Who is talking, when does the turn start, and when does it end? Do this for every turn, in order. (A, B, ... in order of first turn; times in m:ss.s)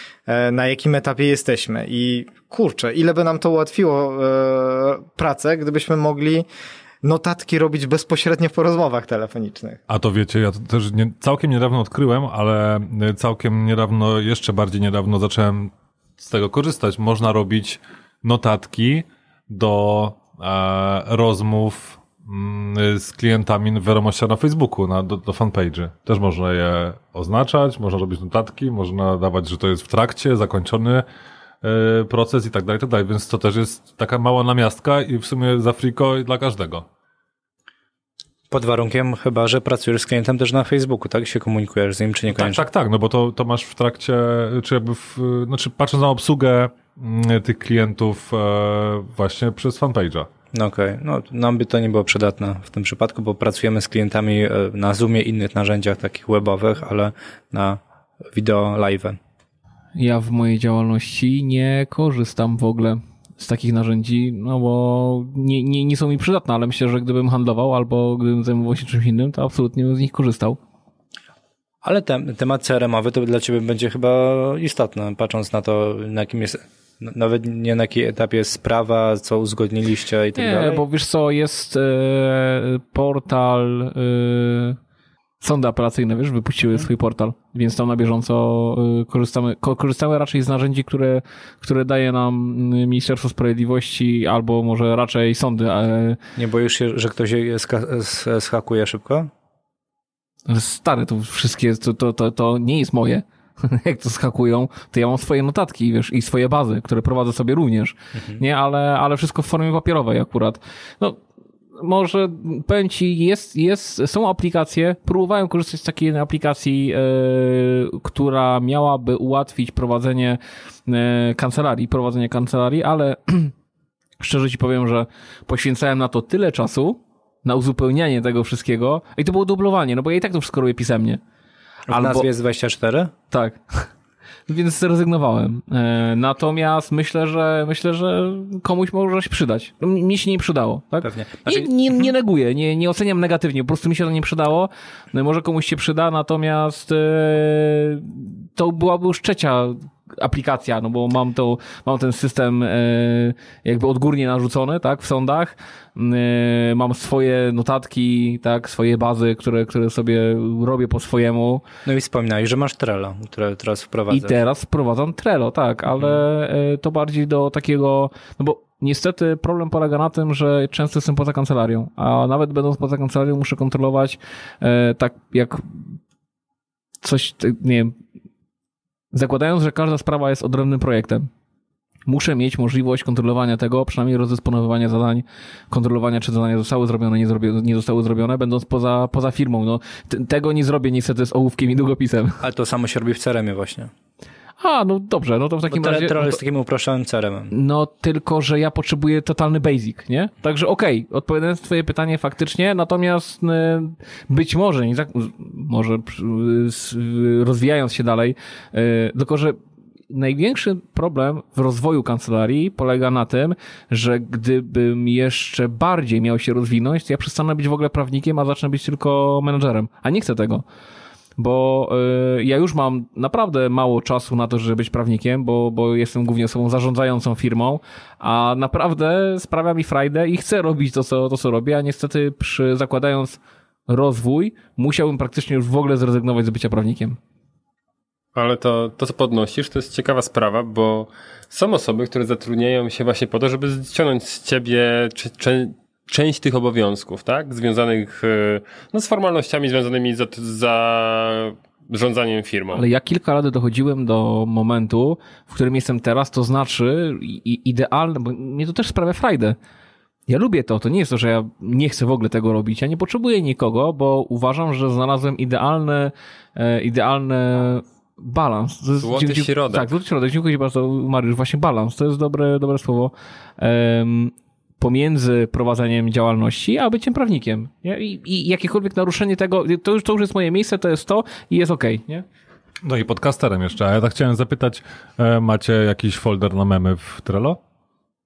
0:00.3-0:06.4 A
0:07.0-0:09.8 A
0:09.9-0:31.1 B
0:31.6-0:36.9 B
0:38.5-0:42.6 C
0:42.3-0:50.3 B
0:50.5-0:59.2 C
1:00.0-1:10.6 D
1:11.8-1:20.8 C
1:20.4-1:24.8 D
1:25.4-1:36.2 D
1:36.4-1:39.3 C
1:40.5-1:51.2 D
1:51.8-2:03.5 D
2:04.2-2:11.2 D
2:11.9-2:12.3 D
2:11.9-2:13.1 C
2:13.3-2:13.9 D
2:14.5-2:41.6 D
2:21.0-2:22.1 C
2:41.8-2:44.4 C
2:44.1-2:55.8 D
2:57.0-2:58.0 D
2:59.1-3:01.3 D
3:02.1-3:12.4 D
3:12.4-3:13.9 C
3:14.6-3:16.4 D
3:15.7-3:17.5 C
3:17.5-3:29.6 D
3:30.1-3:40.6 D
3:41.4-3:57.2 D
3:58.4-4:12.8 E
4:12.8-4:19.6 D
4:20.3-4:42.3 D
4:29.0-4:29.9 E
4:42.8-4:47.6 B